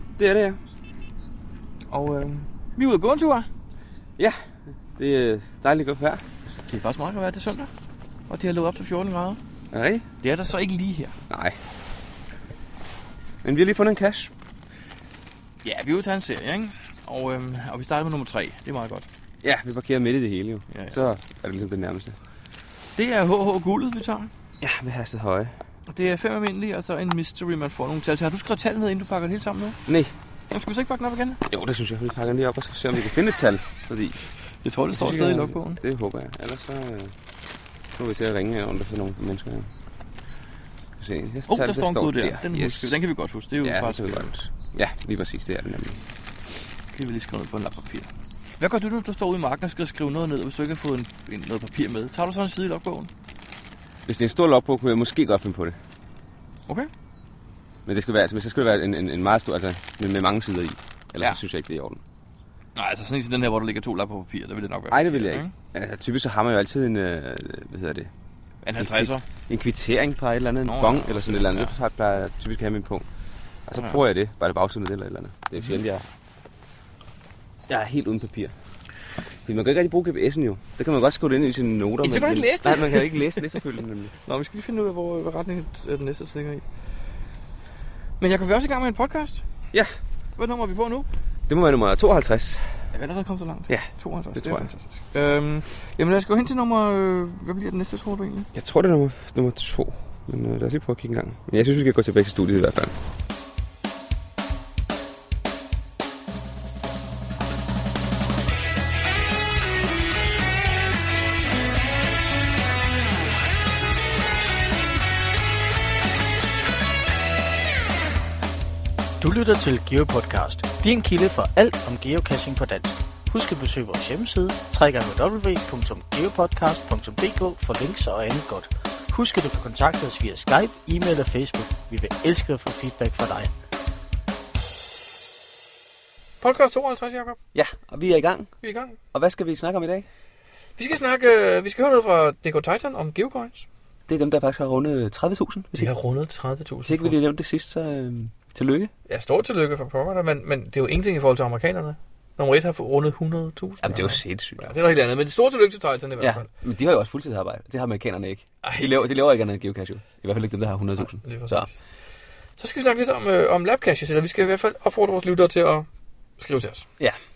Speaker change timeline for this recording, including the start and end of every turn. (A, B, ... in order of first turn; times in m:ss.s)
0:00.2-0:00.6 A
0:01.9-0:03.5 B
0:04.2-0:04.4 A
0:05.0-0:06.2 A
0:06.7-0:07.7 B
0:08.3-0:09.4 B
0:09.7-0:10.1 A
0:10.2-0:11.2 B
0:11.3-0:11.6 A
0:13.4-0:14.3 A
0:15.6-0:19.1 B
0:19.4-0:22.2 A
0:20.7-0:21.0 B
0:23.0-0:24.3 B
0:24.6-0:25.5 A
0:25.9-0:29.8 B
0:29.9-0:30.1 A
0:30.5-0:31.4 B
0:31.4-0:34.3 A
0:34.6-0:35.8 B
0:34.9-0:37.1 A
0:38.0-0:39.7 A
0:41.0-0:43.0 A
0:41.5-0:44.3 B
0:43.6-0:46.0 A
0:46.9-0:48.1 B
0:48.6-0:53.1 B
0:54.1-0:55.8 A
0:57.9-1:02.0 A
1:02.8-1:05.5 B
1:04.9-1:08.1 A
1:08.6-1:09.2 B
1:08.8-1:13.0 A
1:10.6-1:11.7 B
1:13.7-1:16.0 A
1:17.7-1:18.5 A
1:19.4-1:24.1 A
1:22.0-1:23.7 B
1:24.3-1:26.6 B
1:28.2-1:29.4 B
1:30.4-1:31.1 B
1:31.5-1:32.8 A
1:32.9-1:38.5 B
1:33.7-1:34.7 A
1:38.5-1:43.0 A
1:59.2-2:13.5 C
2:16.4-2:17.4 B
2:17.5-2:18.5 A
2:18.6-2:19.0 B
2:19.1-2:20.1 A
2:20.8-2:23.7 B
2:24.1-2:25.9 A
2:25.7-2:27.2 B
2:26.8-2:28.9 A
2:29.1-2:36.5 B
2:33.8-2:34.7 A
2:36.2-2:41.7 A
2:41.0-2:41.8 B
2:42.6-2:45.9 B
2:46.4-2:46.9 B